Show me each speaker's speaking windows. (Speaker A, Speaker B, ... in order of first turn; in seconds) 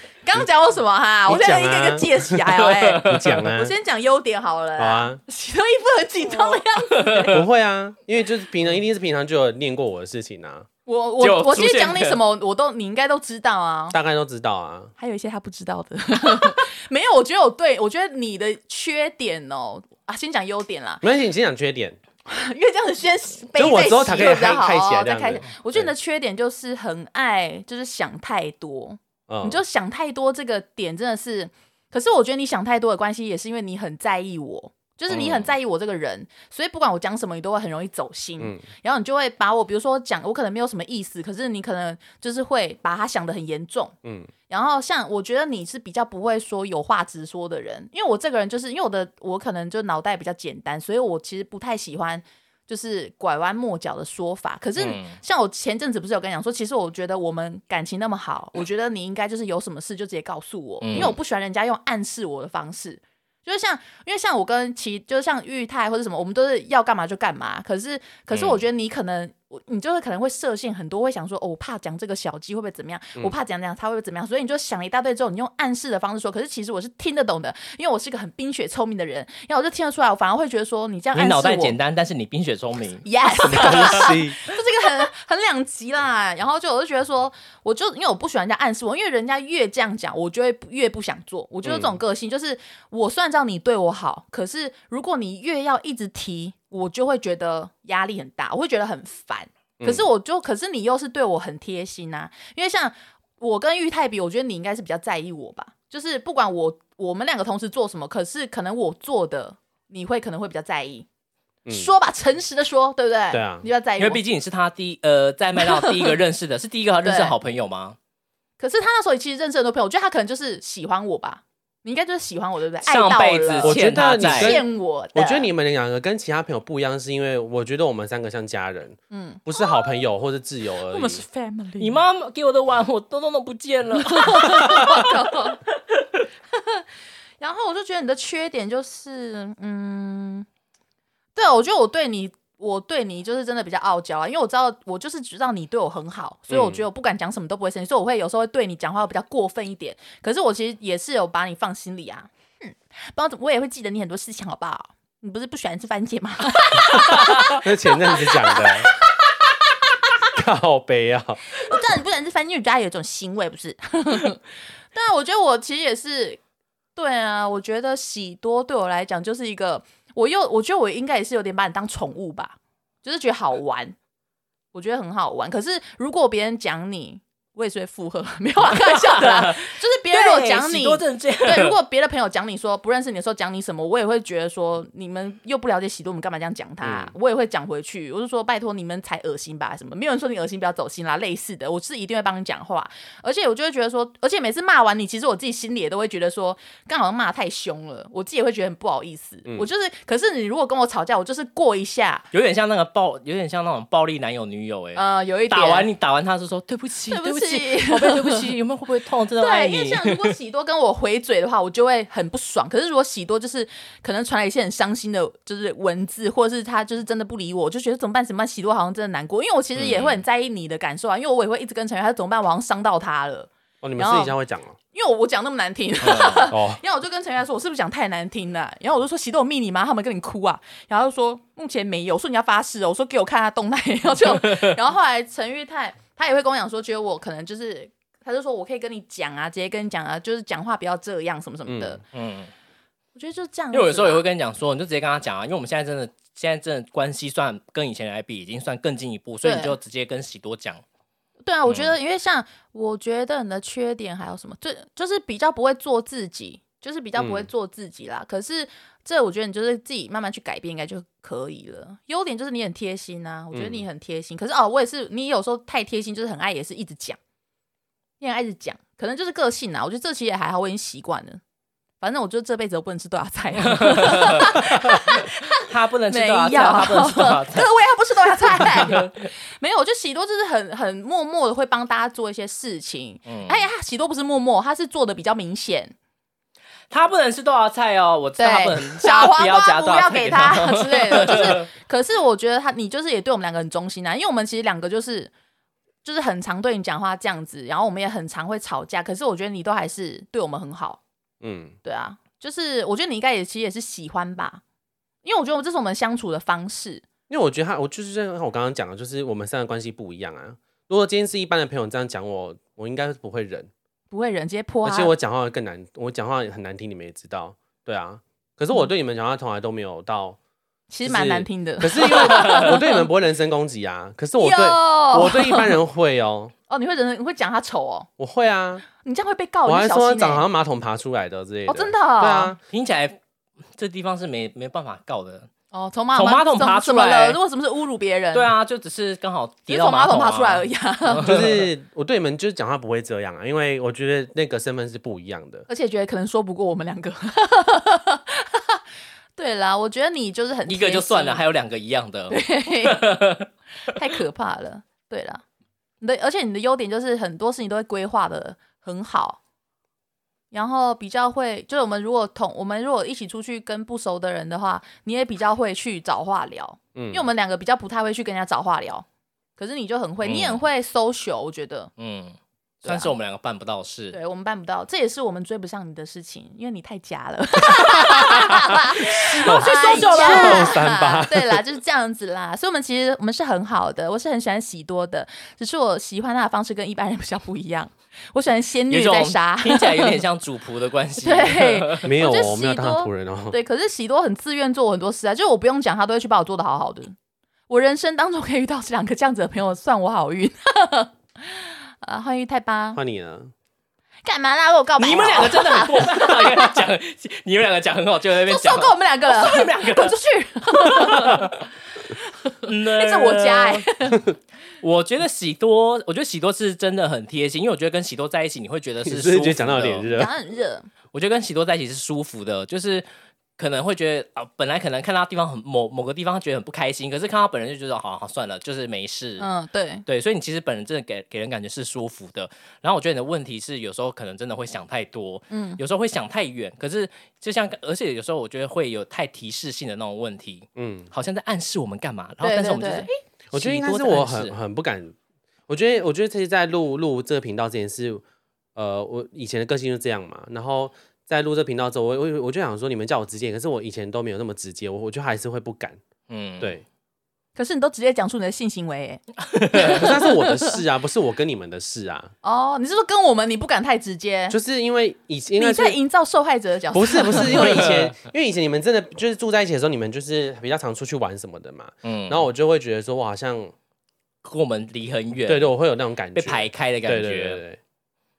Speaker A: 0.2-7.4, 10.9-14.0, 15.0-21.0, 22.3-44.0, 44.5-81.8, 83.0-111.1, 111.7-114.2, 115.6-116.2, 117.0-117.3, 118.6-125.5, 129.1-129.9, 130.9-132.0, 134.0-135.6, 136.5-136.8, 137.4-140.5, 141.3-159.5, 161.6-164.4, 164.9-166.4, 167.0-173.9, 174.7-202.3, 204.9-205.9, 207.1-208.5, 209.4-224.4, 224.9-242.0, 243.2-244.2, 249.4-249.8, 251.4-267.2, 268.2-271.4, 272.0-285.9, 288.4-295.3, 296.0-301.0, 301.8-304.6, 305.2-307.0, 314.1-315.1, 320.9-323.0, 324.4-325.8, 326.7-328.1, 329.0-330.4, 331.7-332.6, 335.7-338.5, 339.7-341.3, 345.7-348.8, 349.4-351.4, 352.3-353.2, 353.9-355.4, 356.0-359.4, 360.5-369.1, 369.6-371.9, 372.8-373.1, 374.1-390.2, 391.2-397.1, 397.7-403.0, 404.2-406.7, 408.5-411.5, 412.1-414.2, 420.1-420.9, 429.4-430.1, 435.5-435.8, 442.4-443.1, 457.6-460.8, 462.4-464.6, 465.6-467.9
Speaker B: 1.3-2.5, 3.0-3.7, 4.8-5.2, 7.3-10.7, 13.9-14.9, 21.0-22.0, 23.6-25.9, 29.3-29.6, 44.0-44.3, 83.5-84.4, 91.6-92.0, 99.8-100.1, 113.3-113.7, 123.6-131.2, 146.5-146.8, 157.1-158.9, 160.3-161.4, 186.8-187.1, 223.8-224.8, 226.5-226.8, 241.7-242.0, 257.2-257.5, 263.5-263.9, 301.4-301.8, 307.3-313.7, 314.8-320.4, 321.1-326.5, 328.2-328.9, 329.6-332.6, 341.2-345.7, 366.9-367.3, 379.4-381.6, 392.0-393.6, 402.9-403.5, 419.0-420.3, 440.8-441.1, 443.5-445.1, 445.7-448.2, 448.8-456.0, 459.8-462.3, 464.5-466.0, 466.9-473.7, 475.5-477.8
Speaker C: 2.5-3.4, 6.3-7.4, 11.2-12.2, 35.1-35.4, 54.8-55.2, 60.8-61.2, 68.3-68.6, 81.1-84.1, 114.0-118.0, 122.8-124.6, 131.8-135.4, 178.6-181.8, 202.3-210.3, 219.8-220.2, 226.0-226.5, 234.2-234.7, 242.1-242.5, 243.7-250.8, 273.7-277.7, 278.4-279.3, 283.2-283.6, 286.9-291.7, 322.2-322.7, 332.7-333.2, 333.8-335.5, 336.1-337.4, 338.3-341.7, 350.7-353.5, 370.2-370.6, 372.0-374.2, 379.1-380.8, 388.9-392.1, 405.0-410.2, 410.7-411.6, 412.6-413.9, 414.8-420.1, 421.1-423.1, 423.6-429.5, 430.1-444.5, 456.3-456.8, 459.5-460.1, 467.5-468.0, 472.0-472.5, 474.4-475.7, 476.4-477.6